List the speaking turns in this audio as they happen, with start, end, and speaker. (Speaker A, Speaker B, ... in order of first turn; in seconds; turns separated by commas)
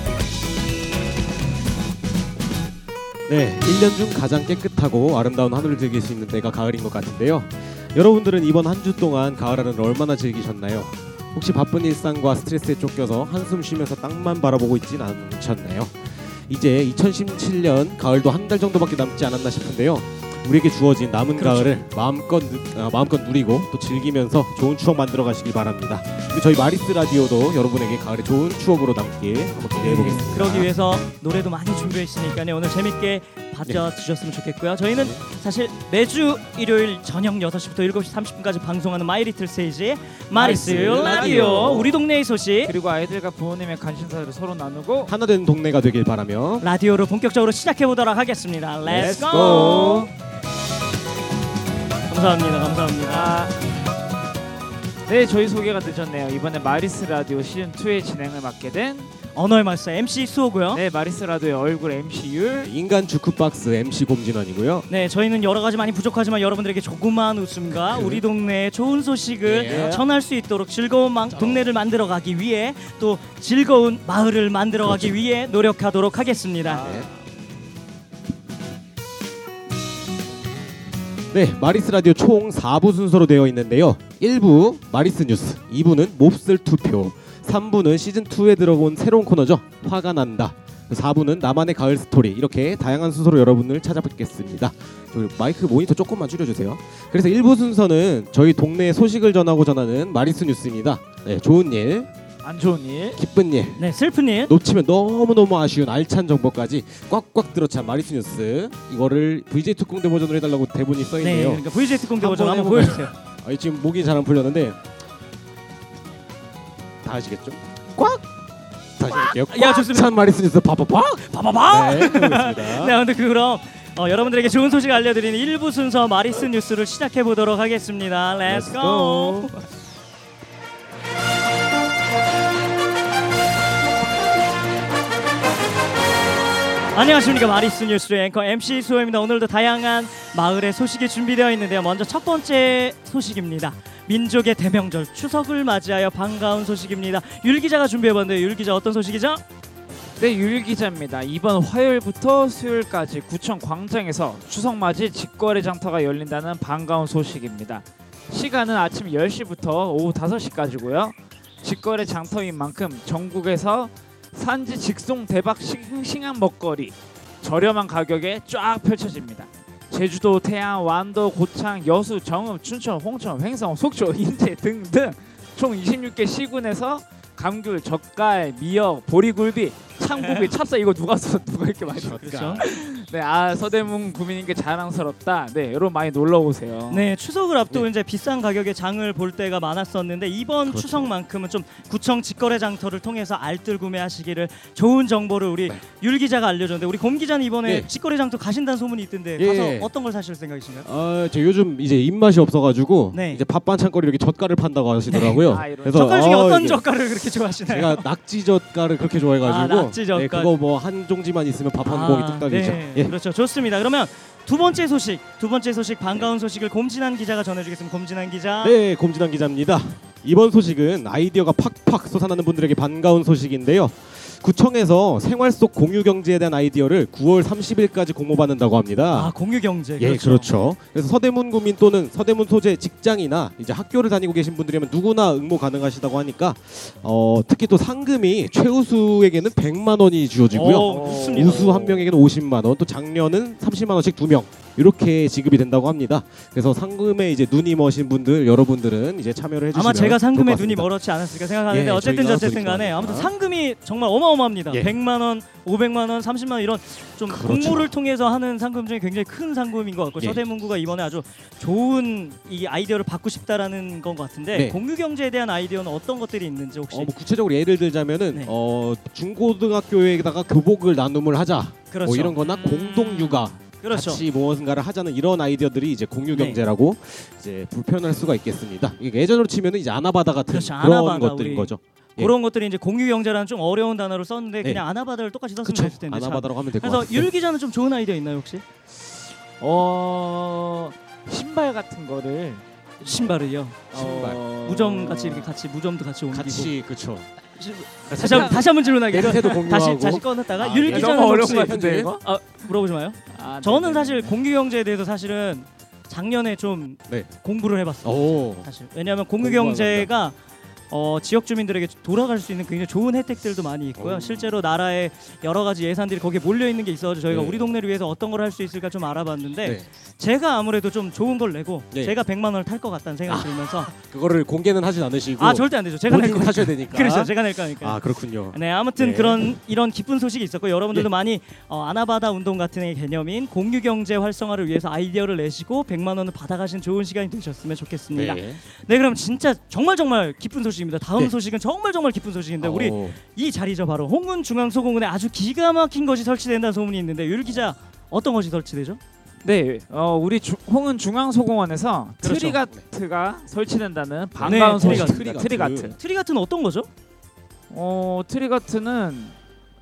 Speaker A: 3.3-30.7, Speaker B: 21.4-21.8, Speaker B: 29.8-42.7, Speaker A: 35.0-35.2, Speaker A: 40.3-42.0, Speaker C: 40.4-42.0, Speaker C: 42.6-45.1, Speaker A: 45.1-46.6, Speaker B: 46.6-50.1, Speaker A: 48.8-50.0, Speaker C: 49.0-50.1, Speaker B: 52.1-53.3, Speaker C: 53.0-53.5, Speaker C: 55.1-59.1, Speaker B: 59.3-60.8, Speaker C: 60.7-62.7, Speaker A: 62.6-64.8, Speaker B: 64.9-76.9, Speaker A: 67.7-68.2, Speaker A: 69.4-70.0, Speaker C: 69.6-70.0, Speaker A: 71.3-71.7, Speaker A: 74.8-75.2, Speaker C: 76.6-77.1, Speaker A: 76.8-77.1, Speaker A: 81.3-102.1, Speaker C: 102.4-103.2, Speaker A: 103.2-103.8, Speaker B: 103.8-104.5, Speaker A: 104.4-114.8, Speaker B: 111.2-113.1, Speaker A: 117.0-118.3, Speaker A: 119.0-122.9, Speaker B: 119.1-120.1, Speaker B: 121.2-129.6, Speaker A: 128.5-129.6, Speaker B: 136.9-149.4, Speaker C: 150.2-187.1, Speaker B: 180.2-180.5, Speaker A: 181.9-182.7, Speaker B: 182.2-182.6, Speaker B: 186.9-200.9, Speaker A: 190.7-191.1, Speaker A: 199.4-199.9, Speaker A: 200.8-206.8, Speaker B: 203.1-203.4, Speaker B: 205.1-208.0, Speaker C: 205.5-206.1, Speaker A: 207.7-213.1, Speaker B: 209.4-210.5, Speaker B: 211.8-218.8, Speaker A: 218.6-229.3, Speaker B: 229.1-230.5, Speaker A: 230.0-250.9, Speaker B: 240.5-242.0, Speaker C: 240.7-241.7, Speaker B: 249.7-267.1, Speaker A: 251.7-253.3, Speaker A: 257.3-257.9, Speaker A: 264.5-264.8, Speaker A: 266.9-282.3, Speaker B: 271.9-272.4, Speaker C: 272.4-273.5, Speaker B: 273.8-274.2, Speaker B: 276.3-276.6, Speaker B: 280.5-288.6, Speaker A: 285.6-287.3, Speaker C: 289.6-292.6, Speaker B: 293.0-293.9, Speaker A: 293.9-294.4, Speaker C: 293.9-295.5, Speaker B: 294.6-296.7, Speaker A: 296.3-297.3, Speaker B: 297.6-310.4, Speaker A: 298.1-302.1, Speaker C: 298.2-298.6, Speaker C: 300.9-302.2, Speaker C: 303.3-304.3, Speaker A: 308.0-308.7, Speaker A: 309.4-310.1, Speaker B: 310.9-323.9, Speaker A: 314.0-314.5, Speaker A: 317.3-317.6, Speaker A: 321.9-322.2, Speaker A: 323.2-329.4, Speaker B: 325.4-349.0, Speaker A: 338.1-338.6, Speaker A: 342.6-343.2, Speaker C: 349.4-355.9, Speaker B: 352.2-352.6, Speaker A: 354.4-355.9, Speaker B: 354.4-355.2, Speaker B: 356.0-356.9, Speaker C: 357.7-359.4